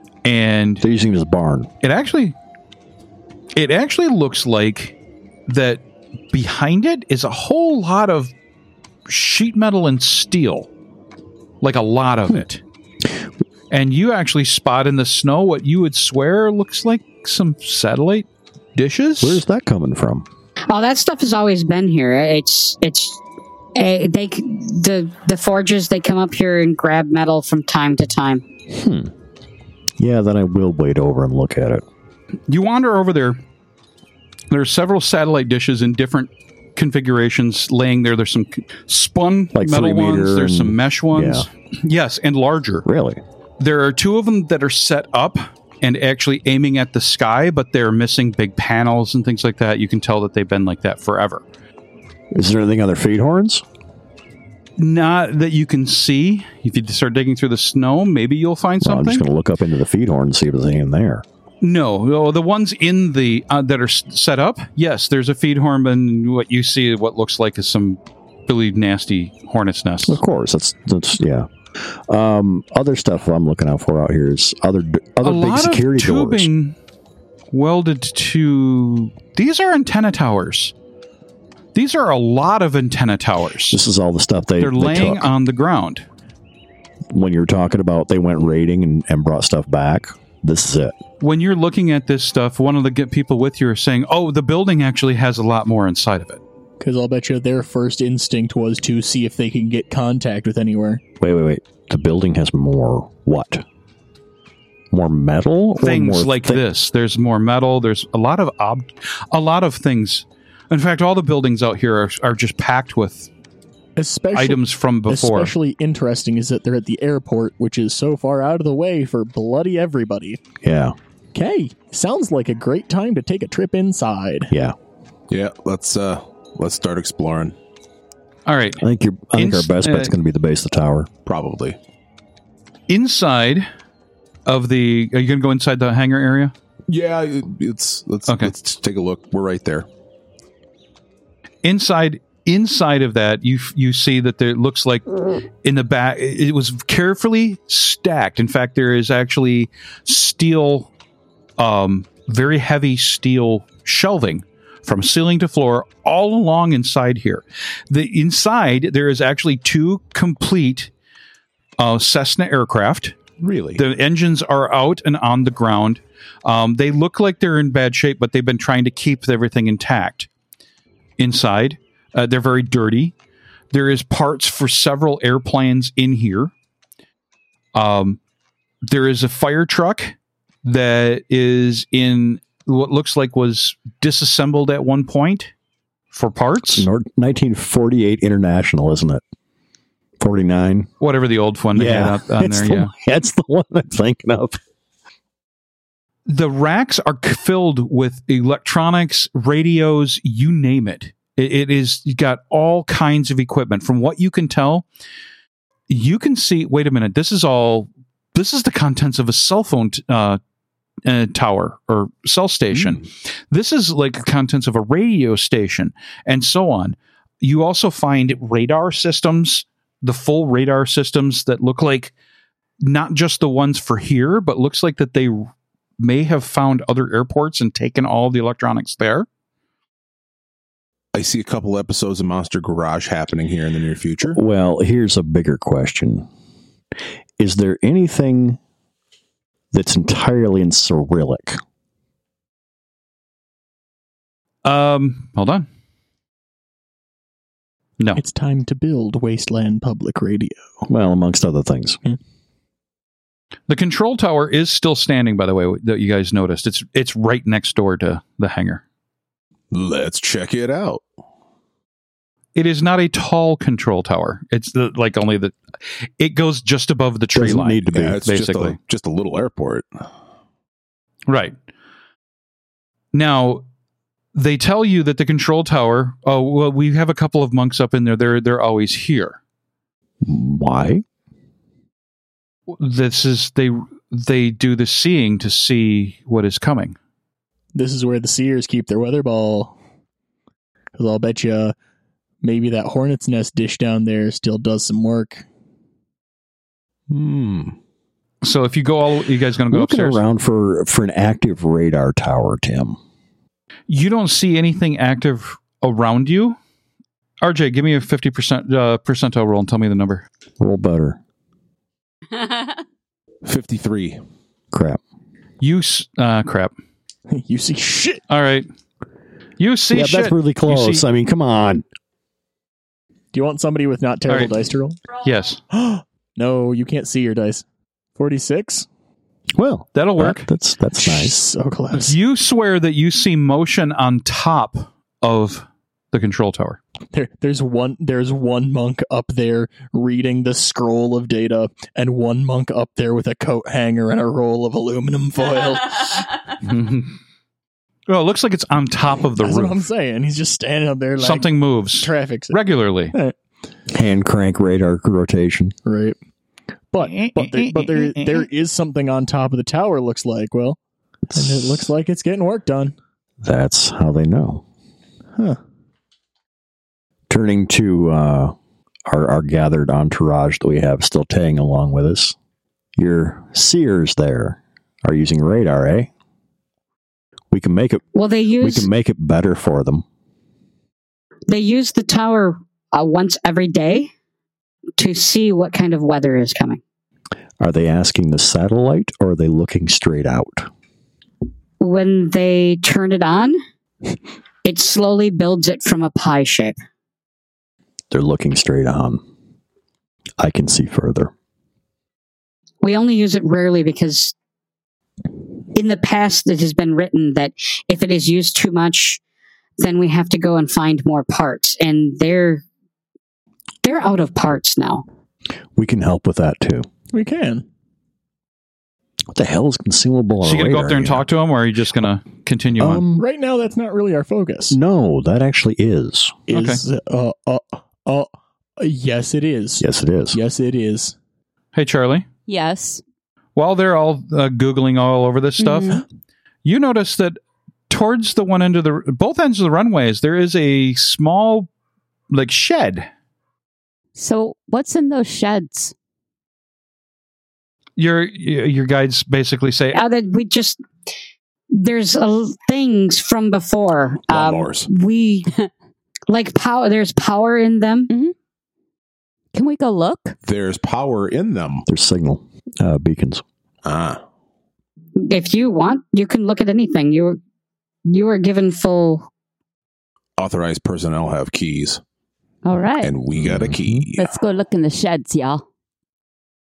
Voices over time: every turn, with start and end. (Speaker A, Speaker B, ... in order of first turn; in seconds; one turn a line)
Speaker A: 0.2-0.8
Speaker B: 0.8-1.7
Speaker A: 1.8-2.4
Speaker A: 3.5-5.0
Speaker A: 5.5-8.3
Speaker A: 9.1-10.7
Speaker A: 11.6-12.6
Speaker A: 13.7-19.4
Speaker B: 19.2-20.3
Speaker C: 20.7-23.2
Speaker C: 23.8-28.4
Speaker B: 28.7-29.1
Speaker B: 30.0-31.8
Speaker A: 32.5-33.4
Speaker A: 34.5-42.9
Speaker B: 39.5-41.5
Speaker B: 42.9-43.2
Speaker A: 43.6-51.4
Speaker B: 52.3-53.6
Speaker A: 54.8-59.2
Speaker B: 58.8-61.2
Speaker A: 61.6-70.2
Speaker B: 70.1-76.5
Speaker A: 75.2-76.8
Speaker A: 77.5-80.7
Speaker A: 81.7-83.8
Speaker B: 83.7-85.3
Speaker A: 84.6-86.0
Speaker B: 87.1-91.0
Speaker A: 91.2-96.4
Speaker D: 96.8-101.0
Speaker B: 101.2-103.6
Speaker B: 104.9-106.7
Speaker A: 105.8-113.3
Speaker D: 114.0-120.4
Speaker A: 114.3-115.5
Speaker B: 120.6-121.0
Speaker D: 121.3-124.5
Speaker E: 125.3-127.6
Speaker A: 128.5-128.8
Speaker B: 128.8-131.1
Speaker A: 129.3-130.1
Speaker E: 131.3-131.8
Speaker A: 132.9-133.7
Speaker A: 134.5-136.5
Speaker E: 136.9-139.9
Speaker A: 138.3-138.5
Speaker A: 141.6-145.1
Speaker A: 145.6-150.9
Speaker A: 151.6-160.9
Speaker A: 161.8-163.2
Speaker E: 163.4-163.8
Speaker A: 163.8-170.3
Speaker A: 171.2-173.1
Speaker A: 173.7-176.5
Speaker A: 177.8-178.2
Speaker A: 178.8-185.5
Speaker A: 186.1-186.9
Speaker B: 186.6-189.2
Speaker B: 190.2-190.9
Speaker A: 191.0-192.9
Speaker B: 191.8-194.6
Speaker A: 196.3-204.9
Speaker A: 205.9-210.4
Speaker A: 211.1-222.1
Speaker A: 222.8-229.3
Speaker E: 231.1-234.4
Speaker B: 234.2-236.3
Speaker B: 237.4-238.6
Speaker B: 239.7-241.6
Speaker A: 244.7-245.7
Speaker D: 248.1-250.8
Speaker B: 250.9-252.0
Speaker A: 253.7-258.8
Speaker E: 259.7-261.0
Speaker A: 262.6-265.6
Speaker A: 266.2-268.8
Speaker B: 267.4-268.2
Speaker E: 267.9-269.9
Speaker A: 271.3-271.6
Speaker A: 273.1-273.6
Speaker A: 274.3-279.4
Speaker B: 280.2-281.0
Speaker A: 282.7-287.0
Speaker D: 287.8-289.8
Speaker D: 291.0-291.8
Speaker D: 292.4-295.4
Speaker E: 297.1-297.8
Speaker A: 298.4-300.2
Speaker B: 299.7-303.0
Speaker A: 303.9-306.6
Speaker A: 307.4-310.3
Speaker B: 310.6-311.2
Speaker E: 313.4-314.2
Speaker B: 314.7-315.0
Speaker A: 315.6-316.7
Speaker D: 317.3-318.2
Speaker A: 318.3-318.7
Speaker A: 319.6-321.1
Speaker B: 319.9-321.9
Speaker D: 323.3-325.0
Speaker A: 324.3-324.6
Speaker A: 325.2-325.6
Speaker D: 325.7-327.6
Speaker D: 328.2-328.9
Speaker B: 329.6-331.4
Speaker A: 329.9-330.5
Speaker D: 331.0-332.1
Speaker A: 331.9-336.8
Speaker D: 337.1-346.3
Speaker A: 346.6-347.1
Speaker A: 348.1-349.9
Speaker D: 349.4-352.6
Speaker A: 351.2-353.1
Speaker B: 353.9-355.8
Speaker D: 355.9-356.2
Speaker D: 356.9-360.8
Speaker A: 357.0-358.5
Speaker B: 361.3-361.9
Speaker D: 361.3-363.0
Speaker B: 363.4-364.6
Speaker B: 367.3-368.6
Speaker B: 369.1-372.4
Speaker B: 373.0-376.1
Speaker B: 377.5-378.0
Speaker C: 378.1-378.9
Speaker B: 378.6-380.1
Speaker C: 381.5-384.1
Speaker C: 385.0-386.8
Speaker B: 387.6-390.7
Speaker C: 391.8-393.6
Speaker C: 394.6-396.8
Speaker B: 398.1-399.2
Speaker B: 400.4-401.3
Speaker C: 402.8-404.3
Speaker C: 405.7-409.2
Speaker C: 409.8-412.6
Speaker C: 413.8-415.1
Speaker B: 415.8-416.9
Speaker D: 417.1-417.7
Speaker B: 419.3-421.3
Speaker A: 420.4-423.0
Speaker B: 422.8-423.2
Speaker D: 423.2-424.8
Speaker B: 424.7-426.5
Speaker D: 426.5-431.2
Speaker A: 426.5-426.8
Speaker B: 429.8-430.4
Speaker A: 431.8-432.2
Speaker F: 432.5-433.0
Speaker A: 433.6-436.0
Speaker F: 435.6-436.0
Speaker A: 436.6-437.4
Speaker A: 437.9-441.7
Speaker A: 442.3-443.1
Speaker F: 444.2-445.9
Speaker A: 448.0-450.0
Speaker C: 449.9-450.8
Speaker C: 451.7-455.5
Speaker E: 454.3-454.9
Speaker C: 456.3-458.1
Speaker F: 459.5-460.4
Speaker E: 460.4-461.9
Speaker B: 461.9-463.4
Speaker E: 463.9-464.2
Speaker C: 465.2-467.4
Speaker C: 468.1-469.3
Speaker E: 470.4-472.0
Speaker F: 472.6-473.1
Speaker E: 473.0-474.3
Speaker B: 473.4-474.1
Speaker F: 474.2-475.6